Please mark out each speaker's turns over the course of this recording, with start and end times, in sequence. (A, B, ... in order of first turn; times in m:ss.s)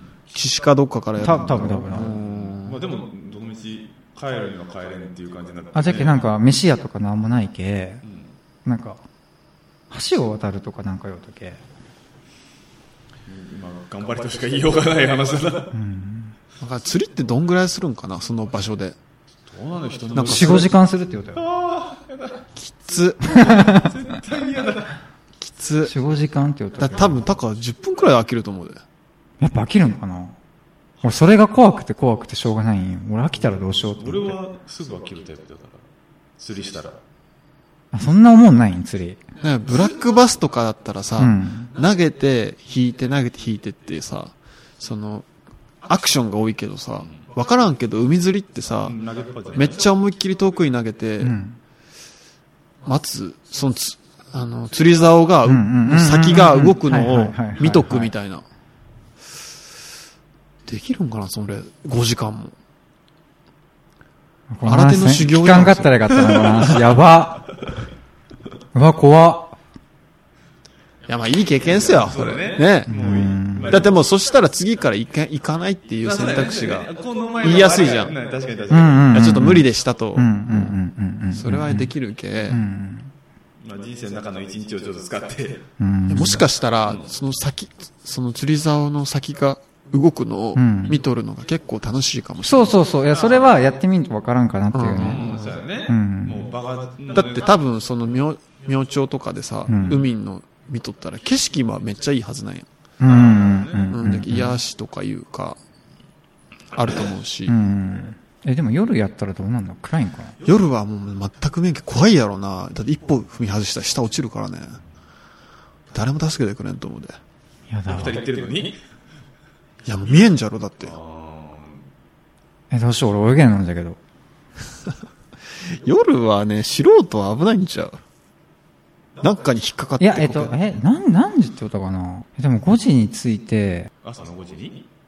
0:00.3-0:02.8 A
0:01.2-0:02.2 B
0:02.1-0:06.2 C
0:05.8-0:08.0 B
0:08.0-0:08.3 C
0:08.6-0:09.0 B
0:09.9-0:11.6 B
0:13.3-0:15.8 C
0:15.7-0:16.4 B
0:16.6-0:19.0 A
0:19.5-0:20.7 C
0:20.1-0:20.7 A
0:20.2-0:21.4 B
0:21.4-0:22.4 C
0:22.6-0:23.4 A
0:23.3-0:25.0 C
0:23.3-0:23.9 B
0:25.4-0:26.0 A
0:25.8-0:27.3 B
0:26.8-0:28.8 A
0:29.4-0:30.4 B
0:31.0-0:34.4 B
0:33.7-0:35.8 C
0:36.4-0:37.0 C
0:37.9-0:39.2 B
0:39.4-0:45.3 A
0:41.2-0:41.7 B
0:45.9-0:49.0 A
0:48.9-0:49.8 C
0:49.6-0:51.4 A
0:51.2-0:51.6 B
0:52.8-0:58.4 A
0:55.4-0:58.1 B
1:00.7-1:02.5 A
1:04.5-1:07.5 B
1:04.6-1:06.8 A
1:08.7-1:09.6 B
1:11.1-1:18.1 A
1:11.9-1:13.9 C
1:12.9-1:13.8 B
1:16.0-1:19.2 C
1:18.7-1:21.9 B
1:19.1-1:20.8 A
1:21.3-1:22.6 A
1:22.5-1:23.1 B
1:23.6-1:25.6 C
1:25.8-1:26.5 B
1:26.1-1:32.8 A
1:30.6-1:31.0 B
1:32.4-1:35.4 B
1:33.1-1:33.5 C
1:34.7-1:35.5 A
1:35.0-1:37.5 C
1:35.9-1:36.5 B
1:37.1-1:42.7 A
1:39.7-1:40.1 B
1:43.0-1:44.6 B
1:43.0-1:44.0 C
1:43.9-1:45.6 A
1:46.7-1:47.6 A
1:47.5-1:50.4 B
1:50.4-1:54.8 A
1:55.9-1:57.2 A
1:57.7-1:58.2 B
1:57.9-1:58.8 C
1:59.8-2:01.0 A
2:00.8-2:01.8 C
2:02.7-2:04.0 B
2:05.7-2:08.0 A
2:09.2-2:10.6 A
2:10.0-2:13.9 B
2:14.0-2:14.9 C